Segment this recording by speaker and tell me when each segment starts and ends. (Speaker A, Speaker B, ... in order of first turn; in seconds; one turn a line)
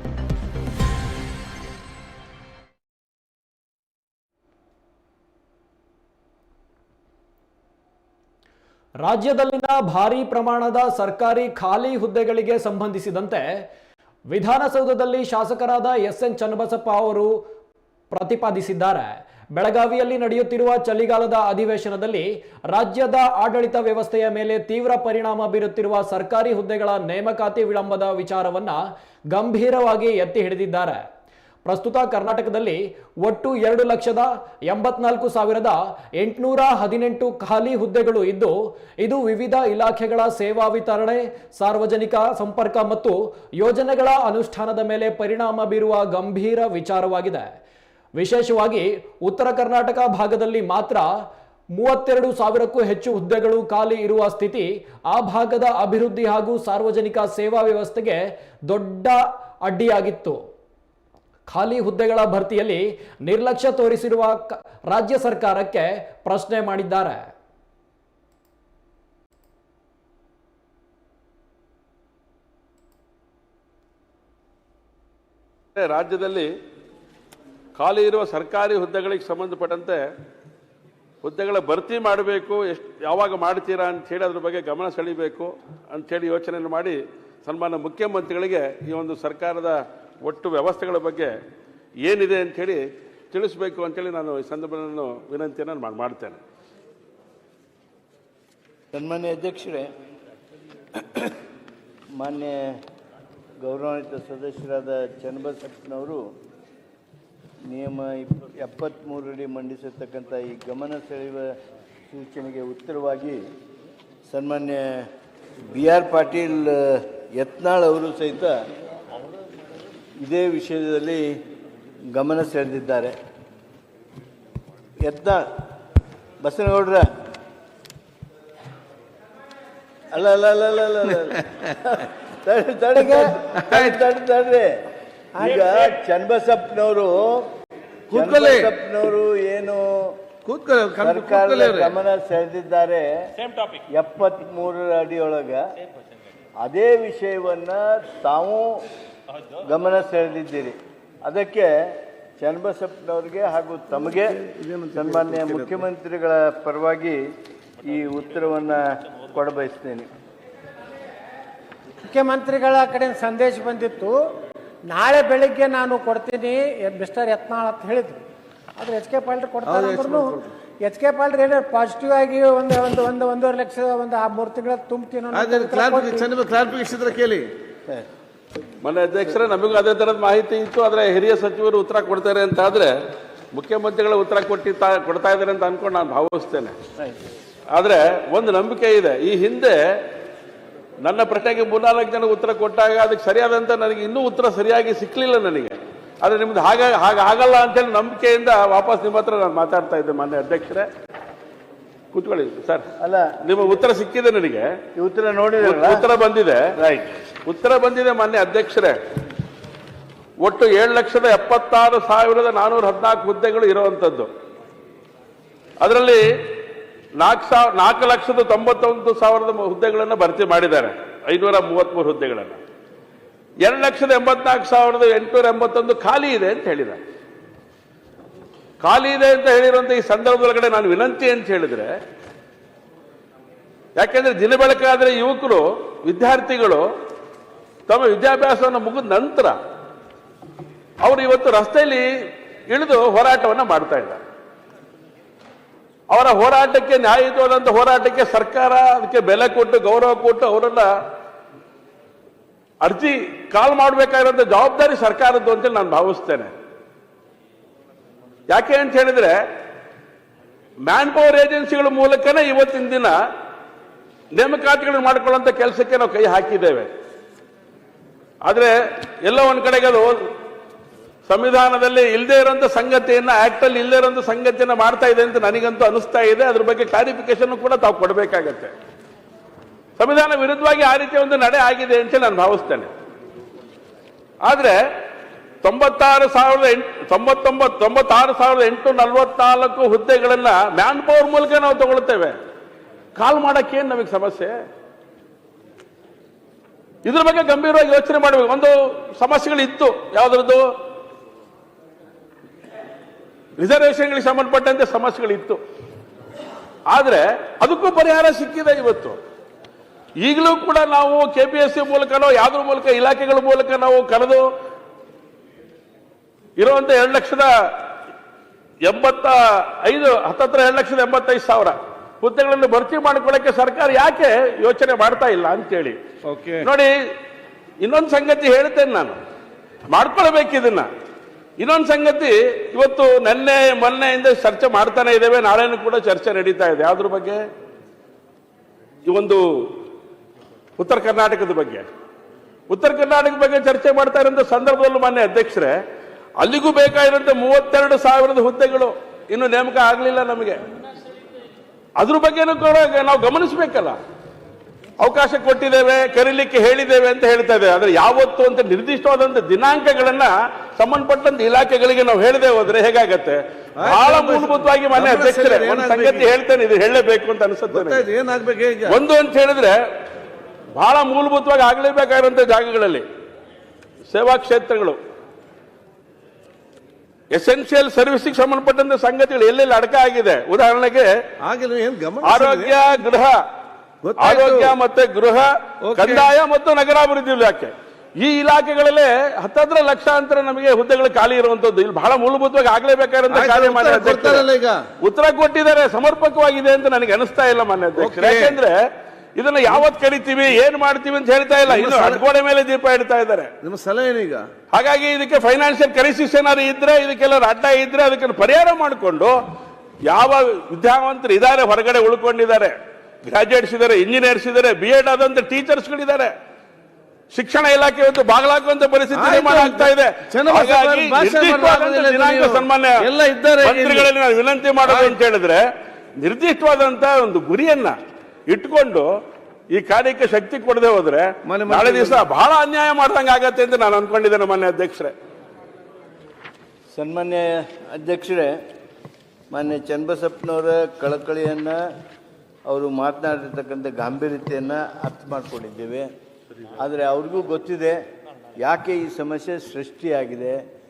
Speaker A: 9.0-13.7
Speaker A: 14.3-17.4
Speaker A: 18.1-31.0
Speaker A: 31.6-47.6
Speaker A: 48.2-60.4
Speaker A: 61.5-67.3
Speaker B: 75.8-76.5
Speaker B: 77.8-80.0
Speaker B: 81.2-91.3
Speaker B: 92.0-96.4
Speaker C: 98.9-99.9
Speaker C: 101.0-101.3
Speaker C: 102.2-102.8
Speaker C: 103.6-106.2
Speaker C: 107.7-111.5
Speaker C: 112.1-113.4
Speaker C: 114.3-115.1
Speaker C: 115.7-118.5
Speaker C: 120.2-121.3
Speaker C: 122.1-123.1
Speaker C: 125.0-125.4
Speaker C: 126.4-127.0
Speaker C: 130.1-134.7
Speaker D: 133.6-134.1
Speaker C: 135.4-137.5
Speaker D: 138.1-138.7
Speaker C: 138.1-140.1
Speaker D: 140.4-142.0
Speaker C: 141.0-143.1
Speaker C: 143.9-145.6
Speaker C: 146.6-148.8
Speaker C: 149.6-154.4
Speaker D: 154.1-155.8
Speaker C: 154.9-157.2
Speaker C: 157.8-160.1
Speaker E: 162.0-164.1
Speaker E: 164.9-168.2
Speaker E: 168.8-176.3
Speaker D: 169.7-170.5
Speaker D: 175.3-177.5
Speaker B: 178.8-182.9
Speaker B: 183.5-186.7
Speaker B: 187.7-190.0
Speaker B: 191.0-200.9
Speaker B: 202.1-202.8
Speaker C: 203.0-203.3
Speaker B: 203.4-204.7
Speaker C: 204.9-206.0
Speaker B: 205.6-206.6
Speaker C: 206.8-207.1
Speaker B: 207.4-208.9
Speaker B: 210.4-214.3
Speaker B: 215.8-216.2
Speaker B: 217.2-222.6
Speaker B: 223.6-227.0
Speaker B: 228.8-231.9
Speaker B: 234.0-236.8
Speaker B: 237.9-239.6
Speaker B: 241.0-242.1
Speaker B: 242.7-244.2
Speaker B: 246.1-250.9
Speaker B: 252.8-256.5
Speaker B: 258.5-259.4
Speaker B: 260.9-263.1
Speaker B: 264.3-266.9
Speaker B: 268.4-270.1
Speaker B: 271.3-278.7
Speaker B: 280.0-282.9
Speaker B: 284.4-284.8
Speaker B: 285.6-292.4
Speaker B: 293.1-294.5
Speaker B: 297.0-300.6
Speaker B: 303.6-305.6
Speaker B: 306.9-309.2
Speaker B: 310.2-314.4
Speaker B: 316.6-317.5
Speaker B: 318.8-326.0
Speaker D: 326.2-326.7
Speaker B: 326.6-326.9
Speaker B: 327.8-329.2
Speaker B: 329.9-330.9
Speaker B: 331.6-337.4
Speaker B: 339.1-339.7
Speaker B: 340.8-341.9
Speaker B: 342.7-345.8
Speaker B: 346.4-350.6
Speaker B: 352.0-354.0
Speaker B: 355.0-368.1
Speaker D: 363.8-366.3
Speaker D: 367.7-369.0
Speaker B: 368.9-369.8
Speaker B: 370.7-373.0
Speaker B: 374.1-375.0
Speaker B: 377.3-381.1
Speaker D: 381.4-382.8
Speaker B: 382.2-383.4
Speaker D: 384.0-384.8
Speaker B: 384.2-394.5
Speaker D: 385.8-386.3
Speaker D: 393.3-394.8
Speaker B: 395.0-398.8
Speaker D: 398.0-398.6
Speaker B: 399.4-403.5
Speaker D: 401.7-402.2
Speaker D: 403.6-404.5
Speaker B: 404.7-409.3
Speaker B: 410.1-412.7
Speaker B: 413.2-416.3
Speaker B: 417.3-423.0
Speaker D: 419.1-424.1
Speaker B: 423.6-425.6
Speaker D: 424.8-425.2
Speaker B: 426.2-427.9
Speaker B: 428.5-429.1
Speaker B: 429.7-435.1
Speaker D: 431.4-432.2
Speaker C: 436.9-438.5
Speaker C: 439.5-441.8
Speaker C: 442.7-446.1
Speaker C: 446.8-448.0
Speaker C: 448.6-450.6